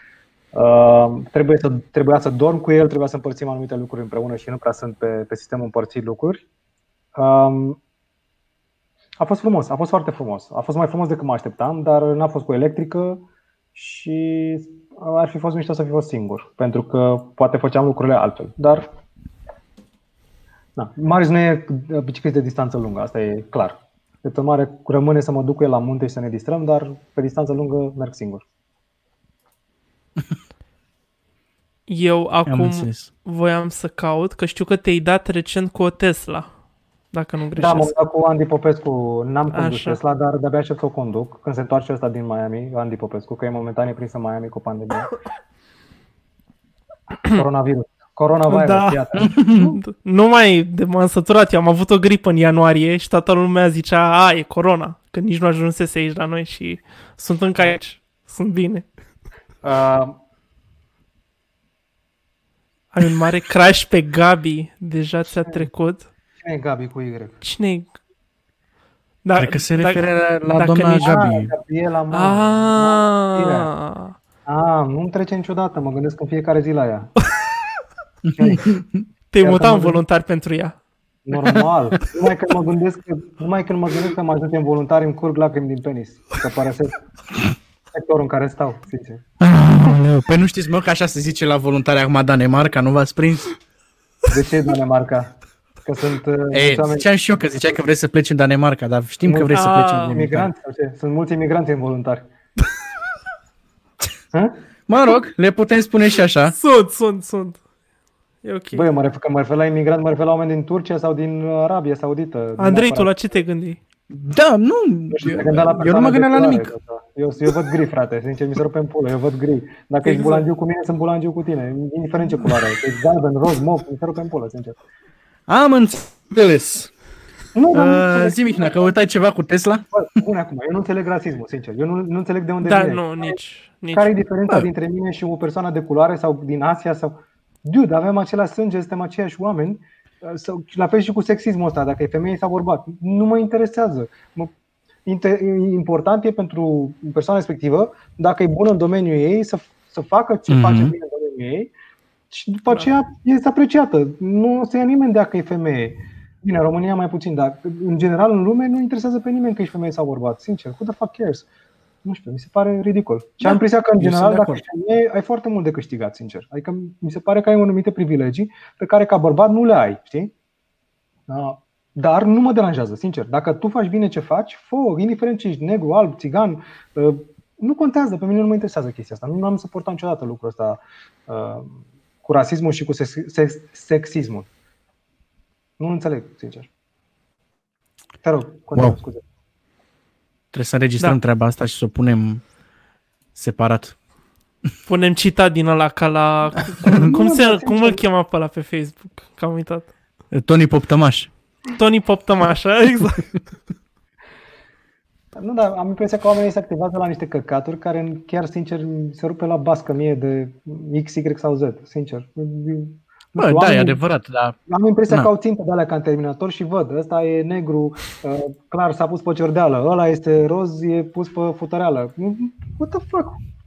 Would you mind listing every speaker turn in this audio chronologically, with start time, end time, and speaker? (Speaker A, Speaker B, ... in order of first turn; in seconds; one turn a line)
Speaker A: 0.5-6.4
Speaker A: 7.2-7.8
Speaker A: 9.2-13.2
Speaker A: 13.8-18.8
Speaker A: 20.8-28.4
Speaker B: 31.9-36.5
Speaker C: 32.5-33.1
Speaker B: 37.1-38.0
Speaker A: 37.6-45.1
Speaker B: 39.5-40.0
Speaker A: 47.3-49.8
Speaker B: 48.5-58.9
Speaker C: 49.2-49.8
Speaker A: 59.6-60.2
Speaker B: 62.9-66.1
Speaker A: 66.4-67.4
Speaker B: 67.4-67.9
Speaker B: 69.2-71.2
Speaker C: 69.4-71.5
Speaker A: 71.0-73.7
Speaker B: 72.1-74.2
Speaker A: 74.5-77.1
Speaker C: 78.2-79.1
Speaker A: 78.4-78.8
Speaker B: 79.3-80.8
Speaker A: 79.4-80.0
Speaker A: 81.3-87.0
Speaker A: 87.9-89.2
Speaker C: 89.4-93.5
Speaker A: 94.3-97.1
Speaker C: 96.5-100.5
Speaker A: 99.2-99.6
Speaker B: 99.5-100.2
Speaker A: 100.1-102.3
Speaker A: 104.3-104.6
Speaker C: 104.9-106.5
Speaker B: 106.5-107.6
Speaker B: 108.4-108.9
Speaker A: 108.7-113.1
Speaker B: 112.6-113.8
Speaker C: 114.1-116.7
Speaker A: 115.1-124.8
Speaker B: 120.0-120.4
Speaker C: 125.5-126.9
Speaker A: 127.5-128.9
Speaker C: 127.7-129.9
Speaker A: 129.9-133.4
Speaker B: 132.6-134.1
Speaker A: 133.9-144.5
Speaker A: 145.1-151.7
Speaker C: 150.5-150.9
Speaker A: 152.3-161.5
Speaker A: 162.0-170.3
Speaker C: 163.4-164.6
Speaker A: 171.3-184.5
Speaker A: 185.8-186.7
Speaker A: 188.2-189.2
Speaker C: 190.5-192.4
Speaker C: 193.3-193.9
Speaker B: 194.9-199.9
Speaker A: 196.8-198.0
Speaker C: 200.3-201.3
Speaker B: 201.7-203.3
Speaker A: 205.4-214.0
Speaker C: 213.4-214.6
Speaker A: 214.7-223.4